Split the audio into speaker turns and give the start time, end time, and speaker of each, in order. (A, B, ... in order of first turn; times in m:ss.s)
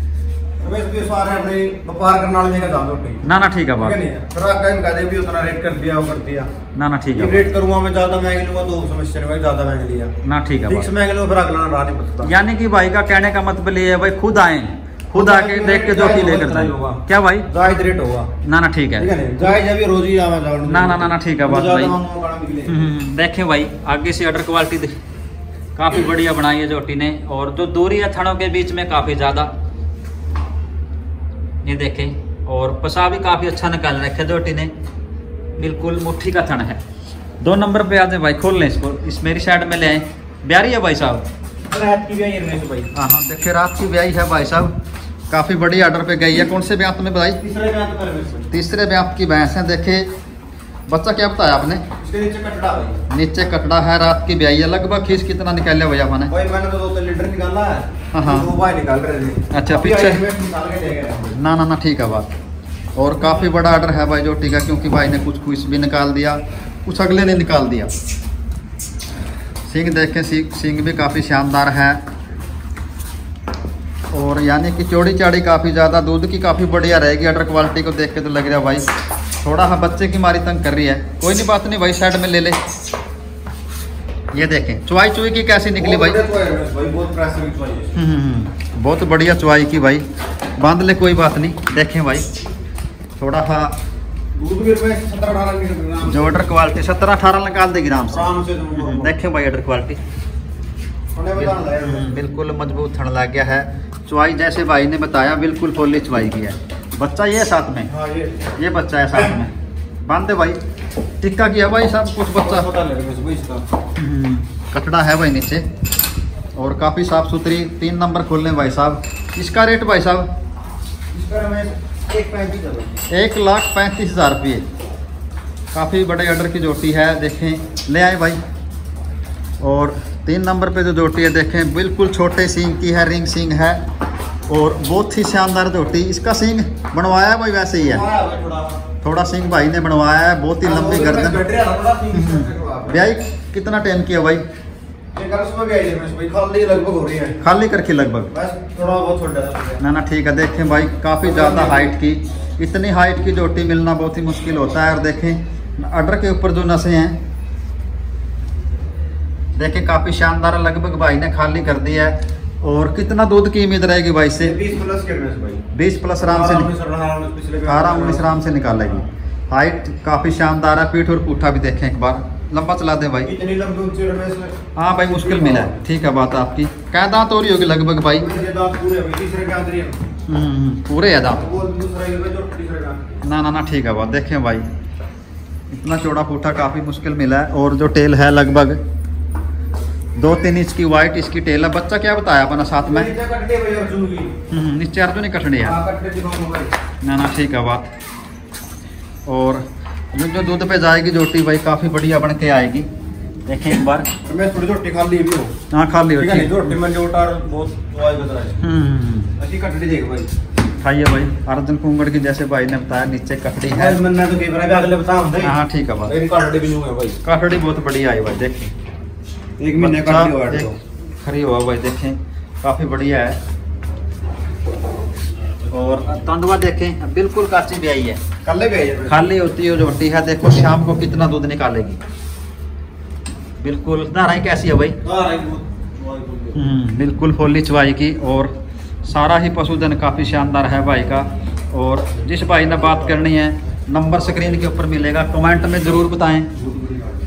0:00.6-0:03.3 A
0:03.2-0:04.0 B
0:03.8-0:06.5 A
0:06.8-0:07.4 B
0:07.2-0:10.1 A
0:10.2-0:10.9 B
0:10.7-0:12.3 A
0:12.2-0:17.5 B
0:15.1-0:18.3 A
0:18.4-0:19.1 B
0:19.0-0:22.9 A
0:20.7-0:21.9 B
0:22.7-0:25.0 B
0:25.8-0:29.5 B
0:31.6-0:34.7 B
0:35.6-0:36.8 B
0:37.4-0:41.2 B
0:41.7-0:42.9 A
0:42.9-0:44.7 B
0:45.3-0:47.4 B
0:47.4-0:48.5 A
0:48.5-0:50.1 B
0:50.9-0:51.8 B
0:52.0-0:53.0 A
0:53.1-0:56.3 B
0:56.3-1:01.4 A
0:58.1-0:58.5 B
0:59.5-1:00.2 B
1:01.4-1:02.3 B
1:03.0-1:07.9 B
1:09.7-1:12.0 B
1:14.1-1:18.9 B
1:19.4-1:22.6 B
1:24.3-1:26.2 B
1:25.8-1:27.9 A
1:28.0-1:30.0 B
1:30.6-1:32.3 B
1:33.2-1:33.7 B
1:34.4-1:36.4 A
1:36.1-1:40.0 B
1:38.1-1:39.1 A
1:41.1-1:42.1 A
1:41.4-1:47.9 B
1:47.9-1:48.6 A
1:48.6-1:49.5 B
1:50.1-1:50.6 B
1:51.2-1:52.7 B
1:52.4-1:53.6 A
1:54.0-1:55.7 B
1:56.6-2:00.3 B
2:01.1-2:03.0 A
2:03.1-2:04.6 B
2:05.7-2:08.4 B
2:09.6-2:13.8 B
2:14.5-2:18.0 B
2:17.8-2:18.8 A
2:19.0-2:21.4 B
2:20.6-2:23.0 A
2:22.1-2:24.4 B
2:25.1-2:27.4 A
2:27.4-2:28.3 B
2:28.3-2:29.8 A
2:29.8-2:37.2 B
2:31.2-2:31.9 A
2:39.6-2:44.6 B
2:44.4-2:45.6 A
2:45.7-2:46.7 B
2:46.2-2:48.3 A
2:47.7-2:53.3 B
2:53.2-2:55.8 A
2:54.8-2:58.3 B
2:58.1-3:00.0 A
3:00.3-3:01.5 B
3:01.3-3:03.1 A
3:03.2-3:04.7 B
3:05.7-3:08.8 B
3:10.2-3:13.1 B
3:12.8-3:14.4 A
3:14.5-3:15.8 B
3:15.6-3:16.7 A
3:17.0-3:17.9 B
3:19.2-3:19.6 B
3:20.1-3:22.9 B
3:23.4-3:24.1 B
3:24.2-3:25.5 A
3:25.7-3:26.7 B
3:26.2-3:28.6 A
3:28.6-3:29.3 B
3:29.4-3:30.3 A
3:30.8-3:34.0 B
3:33.7-3:35.5 A
3:35.4-3:36.1 B
3:36.1-3:37.2 A
3:37.2-3:38.7 B
3:39.6-3:40.8 A
3:39.8-3:43.4 B
3:45.7-3:48.2 B
3:48.4-3:49.3 A
3:49.1-3:52.0 B
3:53.6-3:55.0 B
3:55.0-3:56.6 A
3:56.6-3:58.5 B
3:59.0-4:06.5 B
4:06.7-4:07.0 A